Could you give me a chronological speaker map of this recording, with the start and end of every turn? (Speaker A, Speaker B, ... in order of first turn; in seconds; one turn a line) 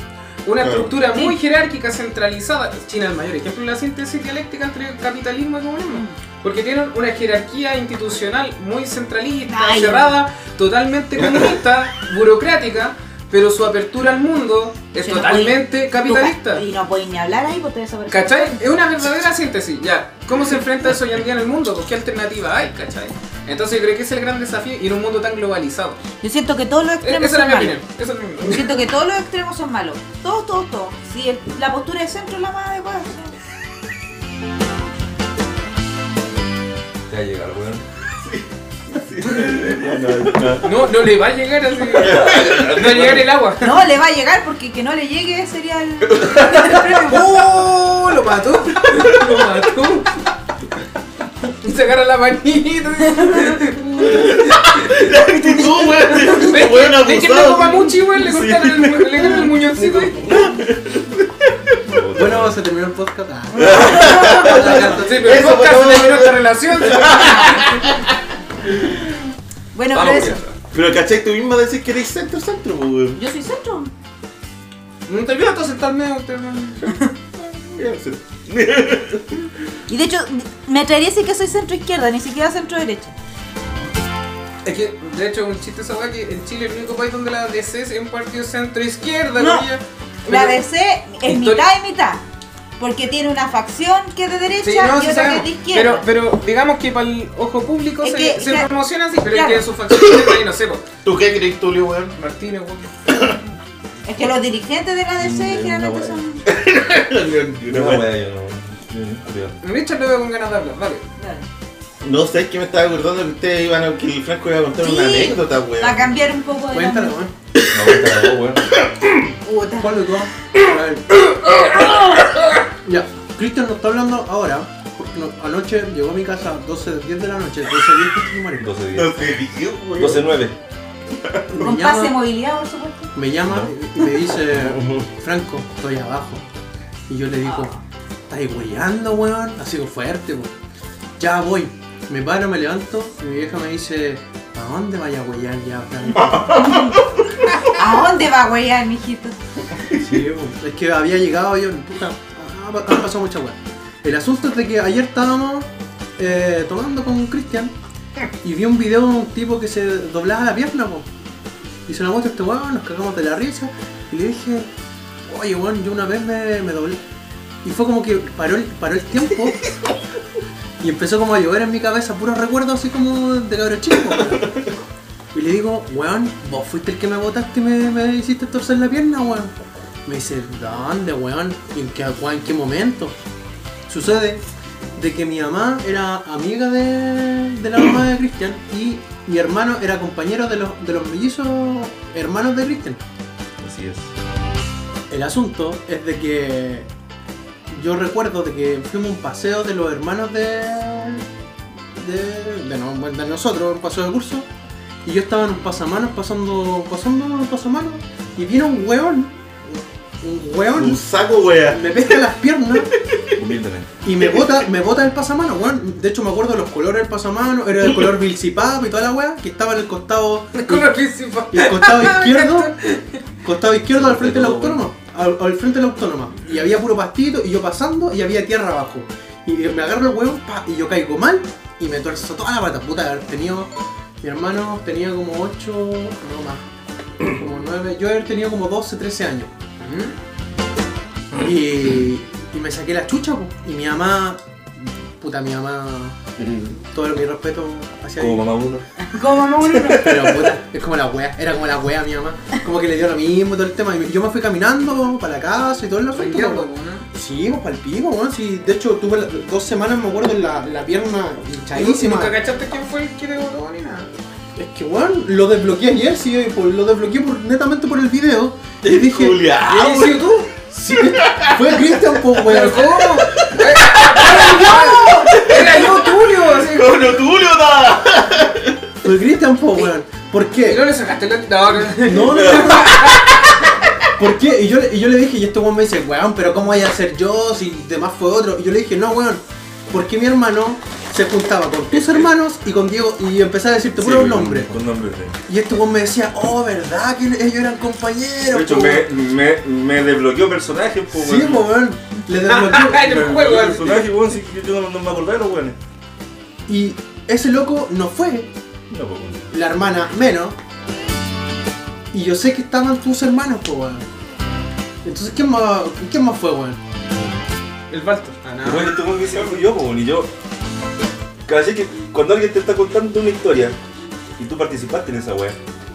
Speaker A: 0.4-16.6
Speaker B: 0.6-1.0
Speaker C: 5.9-6.2
Speaker C: 9.5-10.2
Speaker C: 15.0-18.8
Speaker A: 18.1-26.0
Speaker C: 26.2-27.8
Speaker A: 27.0-28.8
Speaker C: 28.4-33.3
Speaker D: 37.1-37.8
Speaker D: 39.0-40.7
Speaker B: 39.1-40.7
Speaker A: 40.6-43.8
Speaker D: 42.0-43.3
Speaker B: 42.0-42.9
Speaker C: 43.6-47.4
Speaker D: 46.1-46.8
Speaker A: 46.9-50.2
Speaker A: 51.6-54.8
Speaker B: 54.0-58.0
Speaker A: 55.9-60.3
Speaker D: 58.2-59.4
Speaker B: 60.1-61.2
Speaker D: 60.2-60.6
Speaker D: 61.8-62.6
Speaker E: 62.1-65.3
Speaker B: 63.6-68.1
Speaker A: 63.6-67.8
Speaker C: 63.7-64.4
Speaker D: 63.9-64.3
Speaker C: 67.2-67.6
Speaker C: 69.7-70.4
Speaker D: 69.9-70.6
Speaker B: 70.7-73.2
Speaker C: 73.2-73.9
Speaker A: 75.1-77.1
Speaker B: 77.4-79.2
Speaker C: 79.9-83.1
Speaker A: 84.6-90.6
Speaker C: 89.4-89.6
Speaker C: 90.2-92.2
Speaker A: 91.2-91.6
Speaker C: 92.8-96.0
Speaker A: 94.6-100.8
Speaker C: 98.0-98.7
Speaker C: 99.2-99.7
Speaker B: 99.9-100.4
Speaker B: 101.0-102.1
Speaker A: 102.2-103.0
Speaker B: 103.1-103.3
Speaker C: 104.1-106.4
Speaker D: 105.2-106.2
Speaker B: 106.5-108.0
Speaker D: 107.7-109.5
Speaker A: 109.6-111.0
Speaker C: 111.2-111.5
Speaker B: 112.0-116.2
Speaker C: 114.8-117.2
Speaker E: 116.7-117.3
Speaker D: 117.7-118.8
Speaker B: 117.7-118.0
Speaker B: 118.8-119.1
Speaker C: 119.4-119.9
Speaker E: 119.8-121.1
Speaker E: 122.8-128.8
Speaker D: 128.6-129.3
Speaker B: 128.9-130.3
Speaker D: 130.0-130.6
Speaker E: 131.5-132.2
Speaker C: 131.6-133.1
Speaker E: 133.1-136.4
Speaker B: 134.5-134.9
Speaker E: 137.1-137.7
Speaker C: 137.4-137.7
Speaker E: 138.3-140.5
Speaker E: 141.2-146.9
Speaker B: 146.2-147.1
Speaker C: 146.5-146.9
Speaker C: 147.6-149.3
Speaker B: 149.8-150.2
Speaker E: 149.9-157.7
Speaker E: 158.4-161.1
Speaker E: 161.8-164.7
Speaker E: 165.2-167.0
Speaker E: 167.6-169.7
Speaker E: 170.8-174.5
Speaker E: 175.3-179.5
Speaker E: 180.1-183.1
Speaker E: 183.9-184.4
Speaker E: 184.9-193.0
Speaker D: 193.6-194.1
Speaker E: 195.1-196.9
Speaker E: 197.7-201.2
Speaker E: 201.9-204.5
Speaker E: 205.0-211.0
Speaker B: 210.7-211.9
Speaker E: 211.7-212.9
Speaker D: 213.2-213.9
Speaker E: 214.0-220.9
Speaker A: 220.5-223.2
Speaker E: 221.5-222.7
Speaker E: 223.4-233.7
Speaker D: 223.9-224.8
Speaker E: 234.2-236.6
Speaker E: 237.2-239.5
Speaker A: 239.8-240.2
Speaker E: 241.3-246.2
Speaker D: 246.4-246.8
Speaker E: 246.9-248.5
Speaker D: 248.2-248.8
Speaker C: 249.0-250.1
Speaker D: 249.6-250.5
Speaker E: 250.0-262.4
Speaker A: 256.1-257.1
Speaker A: 261.7-264.1
Speaker E: 264.6-269.4
Speaker B: 268.8-270.3
Speaker A: 269.6-270.5
Speaker E: 270.7-272.9
Speaker B: 270.9-272.2
Speaker A: 272.4-277.1
Speaker B: 273.0-278.9
Speaker E: 279.0-280.8
Speaker A: 280.6-283.3
Speaker E: 282.0-283.0
Speaker E: 284.1-294.8
Speaker D: 294.0-295.3
Speaker E: 295.4-299.1
Speaker D: 298.5-301.7
Speaker E: 301.1-303.4
Speaker A: 302.4-304.1
Speaker D: 303.0-305.8
Speaker E: 306.7-308.5
Speaker D: 308.9-309.5
Speaker E: 309.5-310.6
Speaker E: 312.1-314.0
Speaker E: 315.0-316.8
Speaker A: 317.9-319.3
Speaker D: 318.6-320.3
Speaker D: 321.4-323.8
Speaker D: 324.4-325.6